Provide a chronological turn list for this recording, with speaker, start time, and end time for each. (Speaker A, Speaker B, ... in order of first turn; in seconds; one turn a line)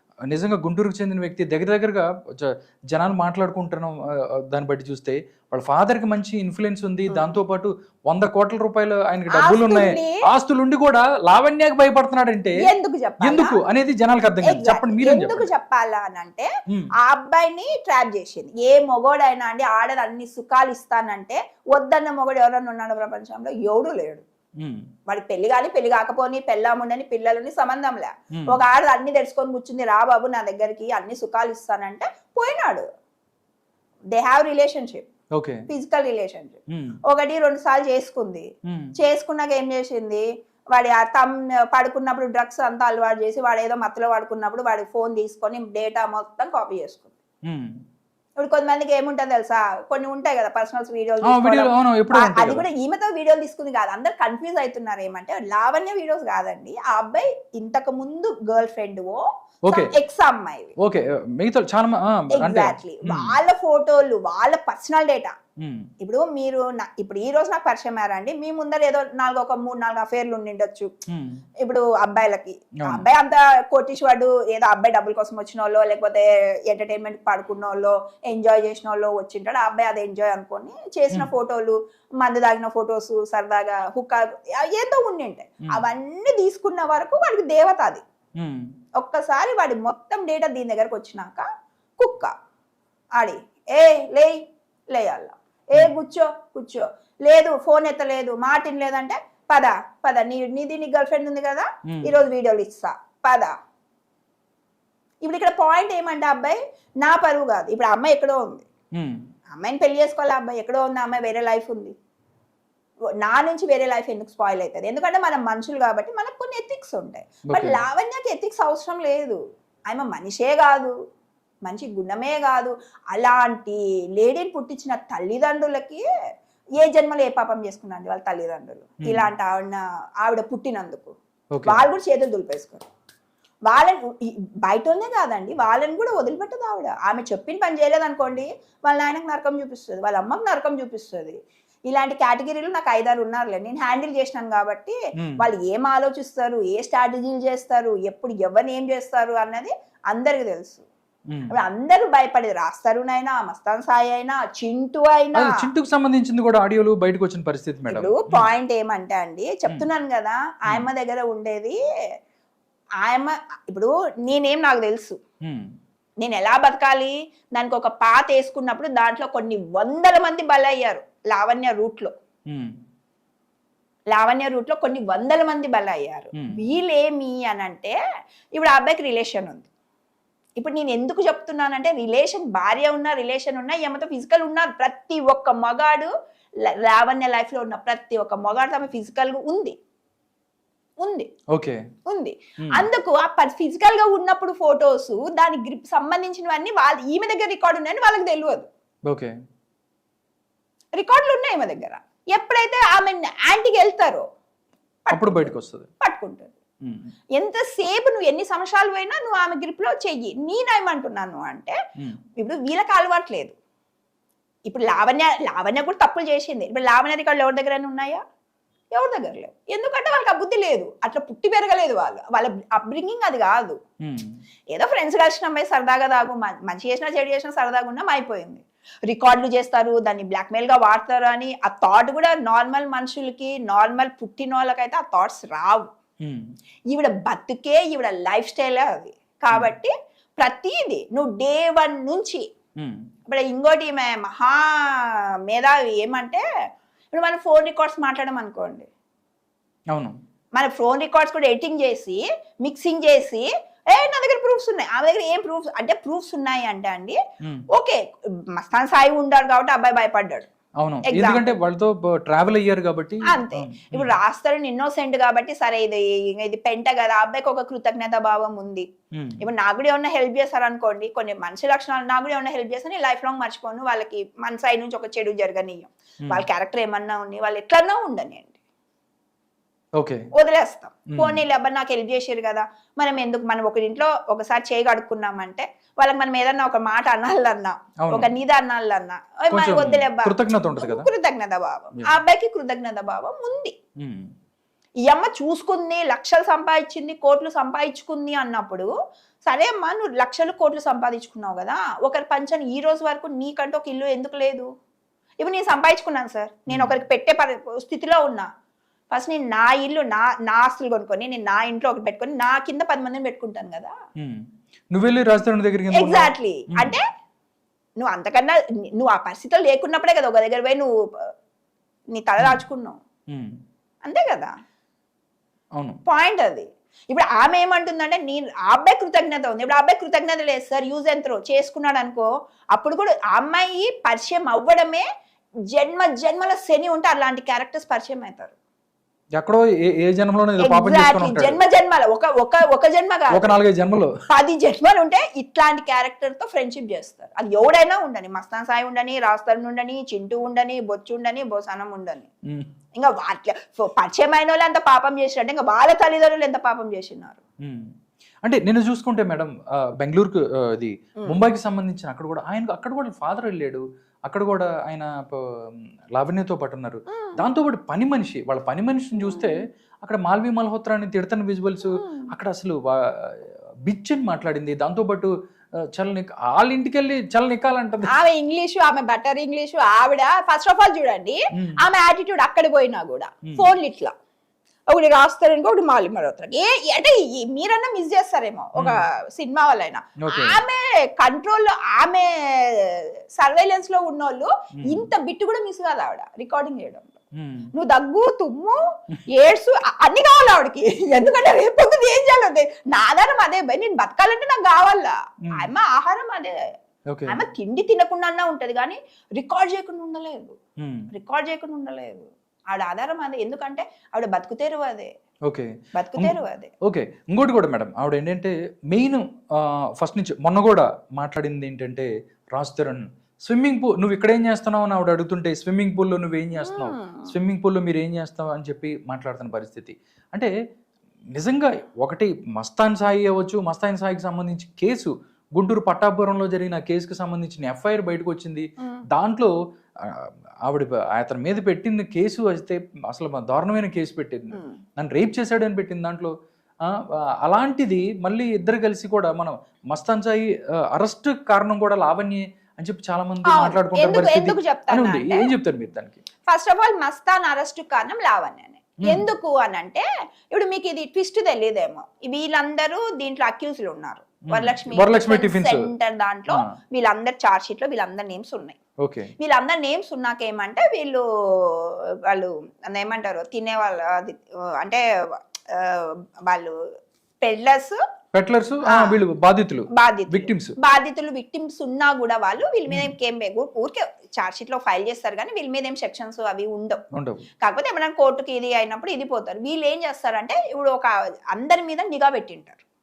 Speaker A: 0.3-3.9
Speaker A: 4.5-12.6
Speaker B: 7.1-7.4
Speaker B: 9.3-10.2
Speaker B: 12.6-13.6
Speaker A: 13.2-15.5
Speaker B: 14.4-16.5
Speaker B: 17.0-24.2
Speaker A: 24.6-24.9
Speaker B: 25.1-32.9
Speaker B: 34.1-35.1
Speaker A: 35.4-35.6
Speaker B: 35.7-38.5
Speaker B: 39.0-47.1
Speaker B: 48.4-60.7
Speaker A: 51.3-52.7
Speaker A: 60.8-63.4
Speaker B: 62.4-65.4
Speaker A: 65.6-65.9
Speaker B: 66.0-70.9
Speaker A: 71.1-71.4
Speaker B: 71.6-88.0
Speaker A: 88.4-88.6
Speaker B: 89.0-91.5
Speaker B: 92.0-92.3
Speaker B: 93.2-94.4
Speaker B: 94.9-103.5
Speaker B: 105.2-108.7
Speaker B: 109.5-111.9
Speaker B: 113.2-119.4
Speaker A: 117.5-117.8
Speaker B: 119.9-120.9
Speaker B: 121.7-126.0
Speaker B: 126.8-132.9
Speaker A: 131.5-131.8
Speaker B: 133.7-141.4
Speaker B: 141.9-150.8
Speaker A: 145.2-145.5
Speaker B: 151.5-155.6
Speaker A: 155.3-158.5
Speaker B: 157.9-161.8
Speaker B: 163.0-165.2
Speaker B: 166.2-172.1
Speaker B: 174.1-178.0
Speaker B: 178.6-179.7
Speaker B: 180.6-186.1
Speaker B: 186.7-189.8
Speaker B: 191.0-191.3
Speaker A: 191.5-191.8
Speaker B: 192.1-198.7
Speaker A: 199.1-199.3
Speaker B: 201.0-204.2
Speaker B: 205.1-206.6
Speaker A: 205.1-205.9
Speaker A: 206.8-207.1
Speaker B: 207.4-211.8
Speaker B: 212.4-213.6
Speaker B: 214.7-218.2
Speaker B: 218.9-223.8
Speaker A: 224.1-224.3
Speaker B: 224.7-235.9
Speaker B: 236.9-242.4
Speaker B: 243.3-246.4
Speaker B: 247.1-248.9
Speaker B: 250.6-257.2
Speaker B: 257.7-258.0
Speaker B: 258.6-260.5
Speaker A: 260.8-264.2
Speaker B: 261.0-261.5
Speaker B: 263.3-268.9
Speaker B: 269.4-278.6
Speaker A: 280.0-280.2
Speaker B: 280.4-293.8
Speaker A: 281.1-281.4
Speaker A: 288.0-288.3
Speaker A: 289.5-291.1
Speaker A: 294.0-294.3
Speaker B: 295.1-298.9
Speaker B: 299.5-304.7
Speaker B: 305.4-308.5
Speaker A: 306.7-306.9
Speaker B: 309.1-313.9
Speaker A: 314.2-317.0
Speaker B: 315.9-317.0
Speaker B: 318.0-321.3
Speaker B: 322.1-323.0
Speaker B: 324.1-324.5
Speaker B: 326.1-335.0
Speaker B: 335.7-338.5
Speaker A: 339.4-341.6
Speaker B: 340.6-343.6
Speaker A: 343.3-344.1
Speaker B: 344.3-352.3
Speaker B: 353.0-357.4
Speaker A: 358.4-365.4
Speaker A: 366.1-375.3
Speaker B: 367.1-367.4
Speaker B: 369.2-369.6
Speaker B: 371.9-372.3
Speaker A: 375.9-378.1
Speaker B: 378.1-384.1
Speaker B: 384.9-397.2
Speaker A: 390.2-390.6
Speaker A: 394.8-395.1
Speaker A: 397.4-397.7
Speaker B: 397.7-398.8
Speaker B: 399.3-406.6
Speaker A: 407.1-407.4
Speaker B: 407.3-410.6
Speaker A: 410.8-411.1
Speaker B: 411.1-415.1
Speaker A: 415.5-430.5
Speaker B: 415.9-416.7
Speaker B: 426.6-427.3
Speaker A: 431.4-439.5
Speaker B: 438.8-439.1
Speaker A: 440.1-446.3
Speaker B: 444.5-444.8
Speaker A: 447.4-456.2
Speaker B: 453.4-455.5
Speaker B: 456.5-468.8
Speaker A: 464.5-465.9
Speaker A: 469.0-469.3
Speaker B: 469.4-475.0
Speaker B: 475.7-476.8
Speaker B: 477.4-478.0
Speaker A: 478.3-480.8
Speaker B: 478.9-479.2
Speaker B: 479.9-487.0
Speaker A: 487.1-487.4
Speaker B: 487.6-492.8